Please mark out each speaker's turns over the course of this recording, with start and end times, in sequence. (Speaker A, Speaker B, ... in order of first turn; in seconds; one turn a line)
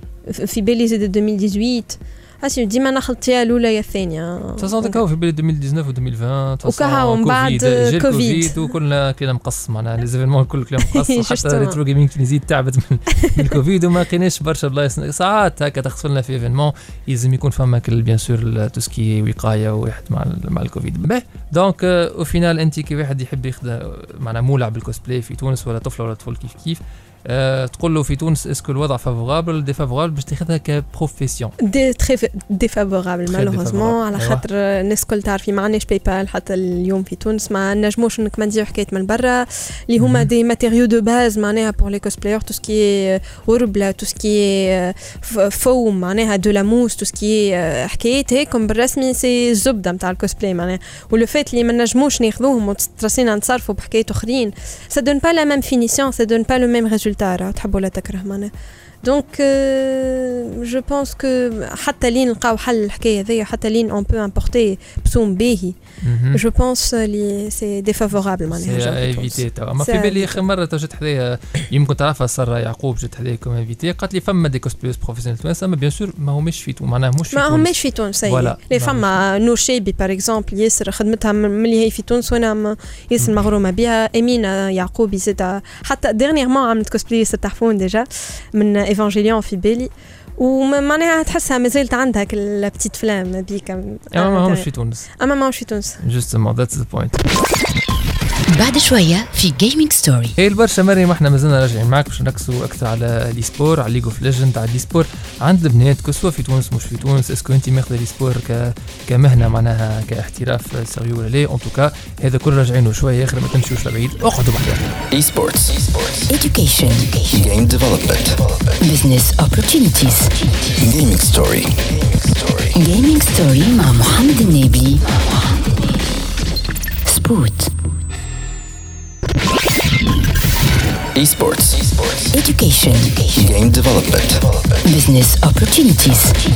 Speaker A: 0.3-5.0
Speaker B: 4.6-31.5
Speaker A: 6.6-8.6
Speaker A: 10.8-11.8
Speaker A: 31.6-58.5
Speaker B: 33.3-34.4
Speaker B: 40.0-40.3
Speaker A: 59.0-65.8
Speaker B: 66.0-66.4
Speaker A: 66.3-70.4
Speaker B: 68.5-79.1
Speaker A: 77.3-96.0
Speaker B: 94.1-95.1
Speaker B: 96.0-97.2
Speaker C: 98.5-100.3
Speaker B: 100.3-114.8
Speaker D: 115.1-116.3
Speaker C: 116.3-117.2
Speaker D: 117.2-118.7
Speaker C: 118.8-120.3
Speaker D: 120.6-122.8
Speaker C: 122.8-125.5
Speaker C: 127.0-127.7
Speaker D: 131.1-132.3
Speaker C: 132.3-133.3
Speaker D: 133.3-134.7
Speaker C: 134.8-136.3